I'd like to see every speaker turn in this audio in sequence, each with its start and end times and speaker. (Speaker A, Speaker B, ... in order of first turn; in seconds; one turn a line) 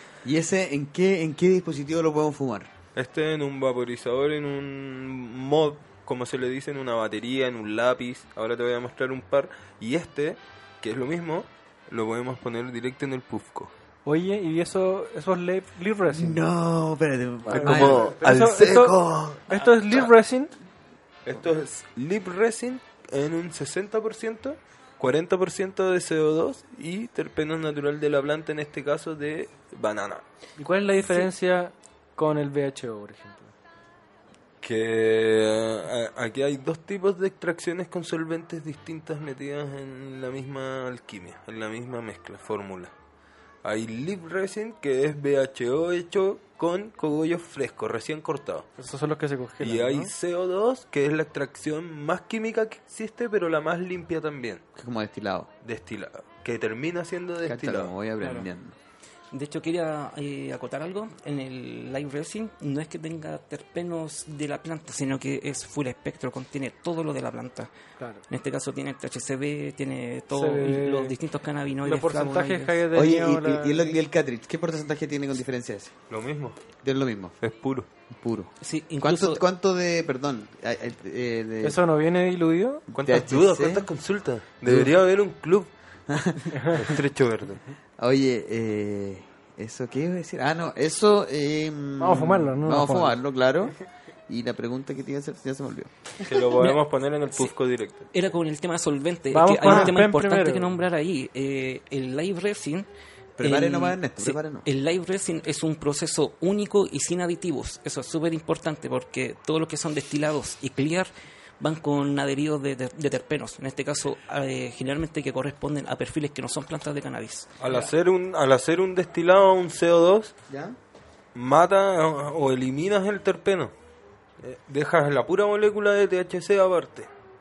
Speaker A: 0.2-2.7
Speaker B: 3.0-13.7
Speaker C: 14.1-16.4
Speaker A: 16.1-18.5
Speaker B: 17.5-20.1
Speaker C: 17.5-20.5
Speaker B: 21.3-30.2
Speaker C: 30.6-33.5
Speaker B: 34.6-42.9
Speaker B: 43.6-48.7
Speaker C: 48.8-50.1
Speaker B: 49.6-54.6
Speaker A: 54.8-55.5
Speaker B: 55.6-57.9
Speaker A: 57.5-58.8
Speaker D: 58.2-58.5
Speaker D: 59.3-67.7
Speaker C: 68.0-68.2
Speaker D: 68.3-72.8
Speaker C: 70.3-71.2
Speaker C: 71.8-73.9
Speaker A: 72.9-75.9
Speaker B: 76.1-76.6
Speaker A: 76.8-77.3
Speaker B: 77.4-77.9
Speaker A: 78.1-81.8
Speaker D: 78.6-79.4
Speaker C: 81.6-82.9
Speaker A: 82.9-83.9
Speaker B: 83.0-85.7
Speaker A: 84.7-84.9
Speaker A: 86.1-86.8
Speaker B: 86.6-87.6
Speaker A: 88.0-93.8
Speaker C: 92.0-93.2
Speaker A: 94.3-96.1
Speaker B: 96.2-98.1
Speaker D: 98.1-102.9
Speaker C: 99.3-100.8
Speaker A: 99.6-100.0
Speaker A: 103.4-104.7
Speaker D: 103.4-117.5
Speaker B: 117.6-120.3
Speaker A: 120.5-120.8
Speaker B: 121.3-123.7
Speaker B: 124.4-127.1